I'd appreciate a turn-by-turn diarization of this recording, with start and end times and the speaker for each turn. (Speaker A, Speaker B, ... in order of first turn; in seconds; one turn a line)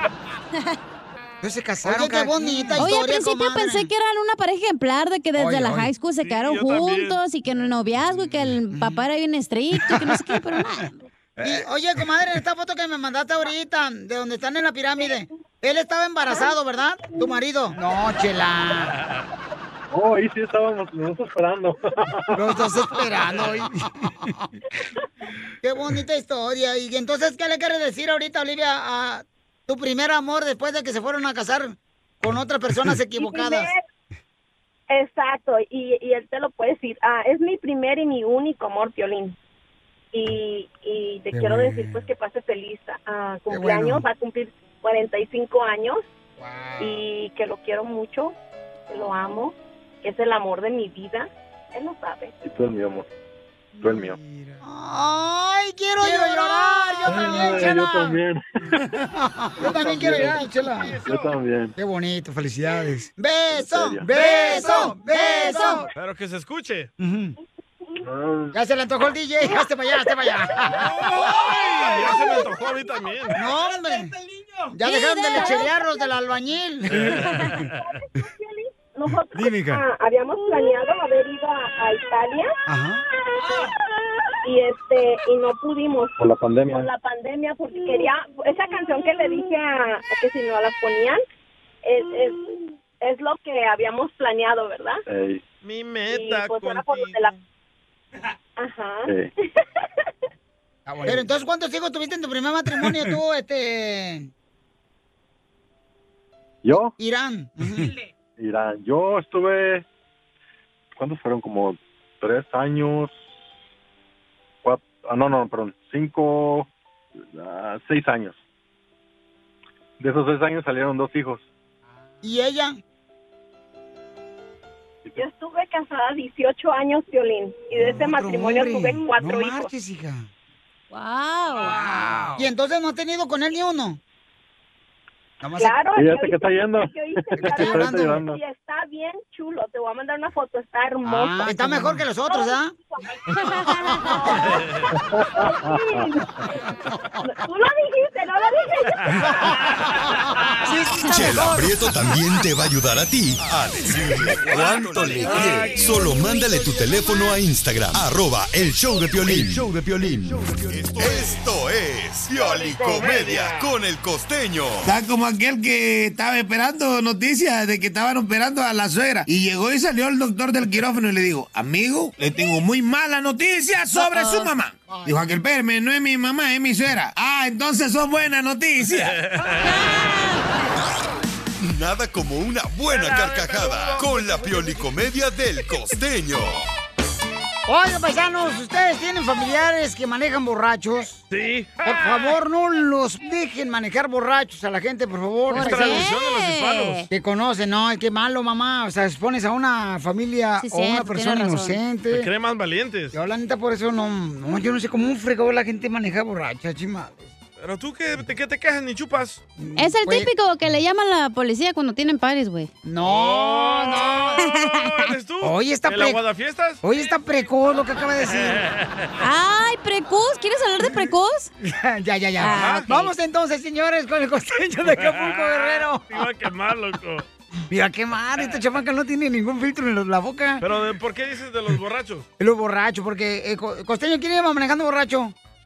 Speaker A: 1.4-3.9
Speaker B: 1.9-11.0
Speaker A: 5.3-5.9
Speaker C: 6.2-7.2
Speaker A: 8.7-9.0
Speaker A: 11.4-18.9
Speaker D: 19.9-22.5
Speaker A: 22.3-24.4
Speaker A: 25.6-33.7
Speaker E: 33.1-33.8
Speaker E: 34.9-39.4
Speaker E: 40.1-46.0
Speaker A: 41.3-42.0
Speaker A: 43.5-44.0
Speaker A: 46.4-47.0
Speaker E: 46.8-48.3
Speaker E: 48.9-52.3
Speaker D: 52.4-53.1
Speaker A: 53.8-58.1
Speaker D: 53.8-54.2
Speaker B: 56.4-56.6
Speaker D: 57.1-58.9
Speaker A: 59.5-61.0
Speaker D: 59.6-60.4
Speaker D: 61.0-61.7
Speaker A: 61.8-65.9
Speaker D: 63.5-64.1
Speaker C: 65.9-66.9
Speaker A: 67.0-67.3
Speaker D: 68.0-68.5
Speaker A: 68.5-70.9
Speaker C: 70.8-73.4
Speaker A: 73.3-74.1
Speaker A: 74.7-77.2
Speaker B: 74.8-75.7
Speaker E: 78.1-82.5
Speaker A: 79.3-79.8
Speaker A: 82.7-83.0
Speaker E: 83.3-83.7
Speaker E: 84.4-91.2
Speaker D: 86.2-86.9
Speaker E: 91.8-92.4
Speaker E: 93.0-95.0
Speaker D: 95.1-95.4
Speaker C: 95.6-97.4
Speaker E: 96.1-97.3
Speaker E: 98.6-99.1
Speaker A: 100.9-104.3
Speaker D: 106.6-106.9
Speaker A: 107.0-107.9
Speaker D: 108.4-109.8
Speaker D: 111.0-113.1
Speaker D: 114.6-116.7
Speaker D: 117.3-118.4
Speaker D: 120.0-121.5
Speaker A: 122.2-122.8
Speaker E: 125.2-129.7
Speaker A: 127.8-130.3
Speaker B: 130.9-132.0
Speaker A: 131.8-134.0
Speaker A: 135.4-135.7
Speaker E: 135.6-144.6
Speaker D: 135.9-138.4
Speaker A: 137.4-138.2
Speaker A: 141.0-142.7
Speaker D: 144.9-146.1
Speaker E: 145.3-146.6
Speaker E: 147.2-149.3
Speaker A: 150.6-151.8
Speaker F: 151.0-164.9
Speaker G: 154.6-155.3
Speaker A: 155.3-155.9
Speaker G: 159.3-159.6
Speaker C: 162.4-163.6
Speaker G: 164.8-179.1
Speaker A: 174.1-174.4
Speaker A: 174.9-175.2
Speaker C: 178.9-179.8
Speaker B: 179.6-180.7
Speaker F: 181.6-186.7
Speaker C: 182.9-184.1
Speaker A: 187.7-191.2
Speaker C: 191.3-192.2
Speaker A: 191.8-196.1
Speaker B: 195.5-197.1
Speaker C: 195.5-197.1
Speaker A: 197.1-202.3
Speaker B: 200.6-201.8
Speaker C: 202.1-203.1
Speaker A: 203.1-207.3
Speaker C: 207.6-209.4
Speaker A: 209.6-210.3
Speaker B: 209.8-212.7
Speaker A: 212.8-214.4
Speaker C: 213.0-216.8
Speaker A: 215.4-216.2
Speaker A: 216.8-218.6
Speaker C: 218.5-219.0
Speaker B: 219.2-221.5
Speaker A: 221.6-226.2
Speaker B: 222.4-223.1
Speaker C: 222.4-222.9
Speaker C: 224.9-227.2
Speaker A: 227.7-230.6
Speaker C: 230.6-232.2
Speaker A: 232.4-235.3